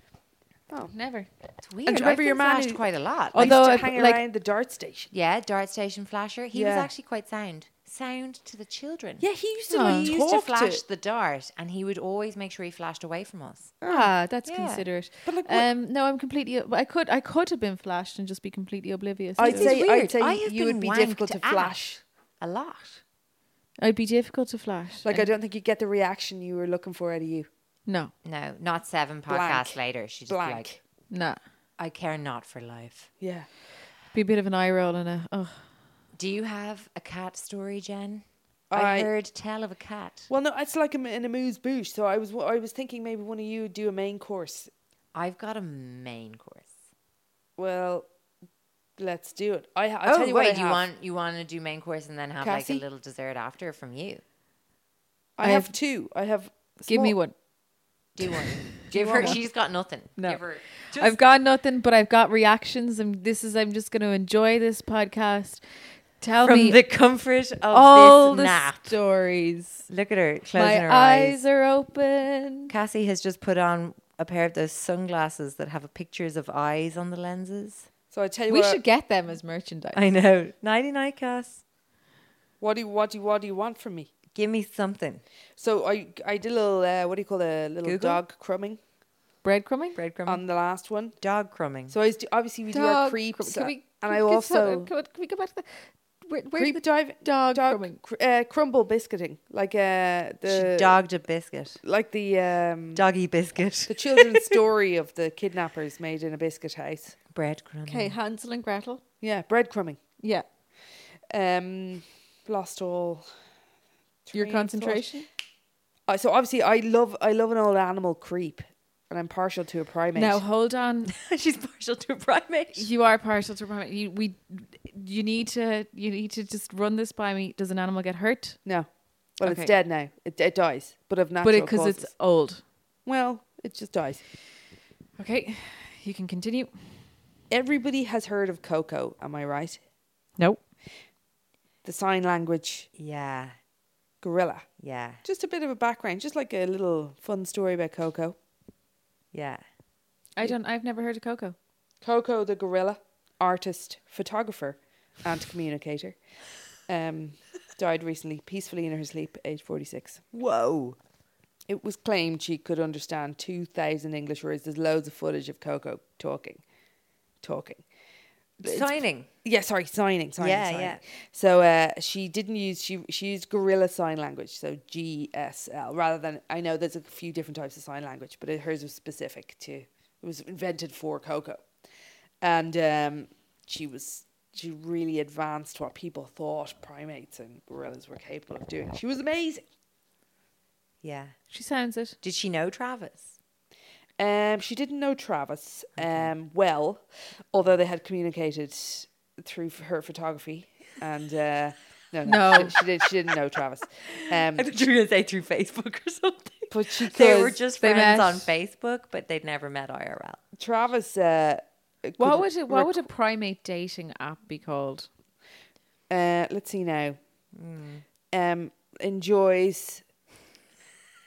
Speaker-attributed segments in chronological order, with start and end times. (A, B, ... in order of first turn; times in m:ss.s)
0:00.9-0:01.3 A
0:01.6-0:03.6 B
0:01.8-0:05.1 C
0:03.3-0:04.2 A
0:05.1-0:13.8 B
0:06.5-0:06.9 C
0:09.2-0:10.8 C
0:09.7-0:10.1 A
0:13.8-0:14.1 C
0:13.8-0:19.8 A
0:14.4-0:14.8 B
0:15.2-0:15.7 C
0:19.4-0:22.0 C
0:19.4-0:23.0 B
0:23.8-0:25.3 A
0:25.0-0:27.5 C
0:27.9-0:28.1 A
0:28.2-0:30.7 B
0:29.3-0:30.8 C
0:31.1-0:31.4 A
0:31.8-0:33.1 B
0:33.2-0:33.5 C
0:34.1-0:35.6 A
0:36.1-0:40.3 B
0:38.7-0:39.1 C
0:40.3-0:44.7 C
0:45.1-0:46.7 B
0:47.6-0:48.1 C
0:49.0-0:50.9 C
0:50.0-0:54.2 B
0:52.4-0:52.8 C
0:55.4-0:57.2 C
0:55.4-0:55.7 A
0:56.9-0:57.3 A
0:58.1-1:01.2 B
0:58.9-0:59.4 C
0:59.1-0:59.4 A
1:00.2-1:05.6 A
1:06.2-1:06.8 A
1:06.4-1:09.0 B
1:07.7-1:09.9 A
1:09.9-1:11.4 B
1:10.6-1:12.7 A
1:12.7-1:17.9 B
1:18.1-1:18.8 C
1:18.5-1:20.0 A
1:19.9-1:21.6 B
1:22.6-1:24.1 C
1:24.3-1:25.2 B
1:25.6-1:28.8 C
1:27.8-1:28.2 B
1:29.4-1:30.0 A
1:29.9-1:30.4 B
1:30.3-1:31.2 C
1:31.2-1:31.9 B
1:31.9-1:34.9 C
1:32.7-1:38.0 A
1:36.6-1:41.0 C
1:40.4-1:41.8 B
1:41.8-1:43.0 C
1:42.9-1:44.6 B
1:43.9-1:47.2 C
1:47.3-1:48.2 B
1:47.9-1:49.0 A
1:49.2-1:50.0 C
1:50.2-1:50.4 A
1:51.3-1:53.2 C
1:54.2-1:55.1 C
1:54.3-1:55.2 A
1:56.1-2:00.4 C
2:00.1-2:01.1 A
2:01.1-2:02.9 B
2:02.7-2:08.6 A
2:09.4-2:12.1 C
2:09.4-2:09.7 A
2:11.4-2:12.6 A
2:13.0-2:14.2 C
2:15.2-2:16.7 A
2:17.5-2:19.8 C
2:21.8-2:22.9 C
2:23.0-2:23.6 B
2:24.2-2:24.7 C
2:24.8-2:25.2 B
2:25.2-2:28.4 C
2:29.3-2:29.6 B
2:30.4-2:31.6 A
2:32.0-2:36.2 C
2:36.8-2:40.9 C
2:41.7-2:46.6 C
2:47.4-2:47.8 C
2:48.6-2:49.3 B
2:48.6-3:01.7 C
2:50.4-2:51.0 B
3:02.4-3:09.6 C
3:11.0-3:11.4 B
3:11.5-3:12.2 A
3:12.2-3:13.4 B
3:14.2-3:24.7 C
3:16.0-3:16.3 B
3:22.2-3:22.7 A
3:24.0-3:30.4 B
3:26.7-3:27.6 C
3:27.8-3:28.5 A
3:30.6-3:33.0 C
3:32.2-3:35.1 A
3:36.1-3:37.2 C
3:37.5-3:38.0 B
3:38.3-3:40.0 C